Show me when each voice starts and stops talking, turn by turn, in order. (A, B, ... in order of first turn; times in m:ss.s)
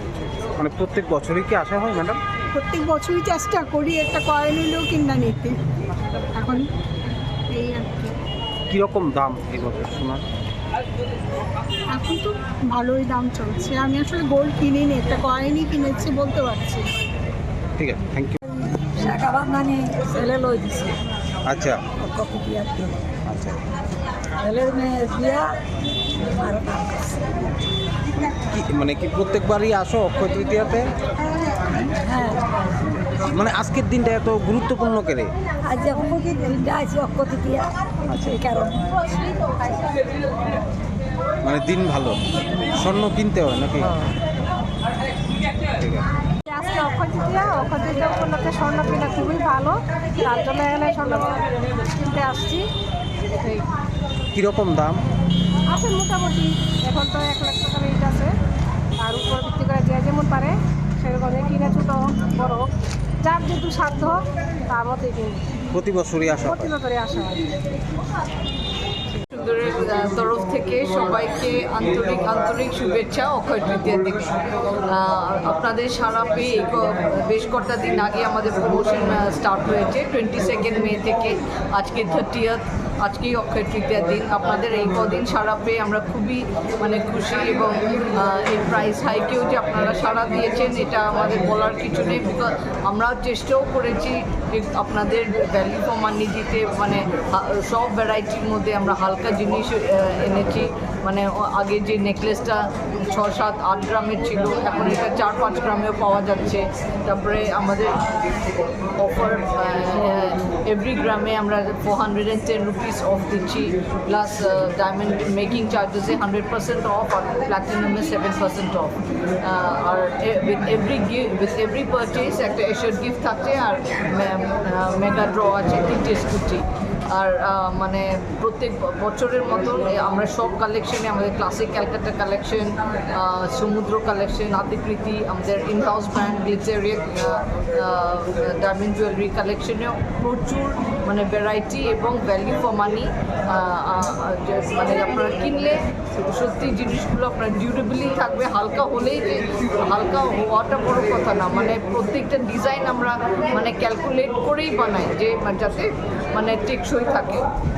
0:00.4-0:02.2 A
0:02.5-0:05.6 B
0:06.4-0:06.7 B
0:07.5-0:08.1 B
0:08.7-0:10.2 A
0:11.9-0:16.9 B
0:17.8-0:18.4 A
0:18.5-0:21.0 C
0:21.5-0:21.8 A
0:22.0-0:23.0 C
0:23.3-0:23.6 A
0:24.4-0:25.6 C
0:26.2-0:27.3 C
0:28.2-0:30.9 A
0:31.9-0:32.6 C
0:33.3-0:35.3 A
0:35.6-0:39.5 C
0:38.1-0:38.4 A
0:41.4-0:44.1 A
0:45.8-0:46.1 A
0:46.5-0:51.4 D
0:52.0-0:52.6 D
0:54.3-0:55.0 A
0:55.7-0:58.3 D
0:59.0-1:02.7 D
1:03.2-1:04.2 D
1:04.7-1:05.4 D
1:05.7-1:06.7 A
1:06.5-1:07.5 D
1:09.3-1:48.2 E
1:49.0-2:37.4 E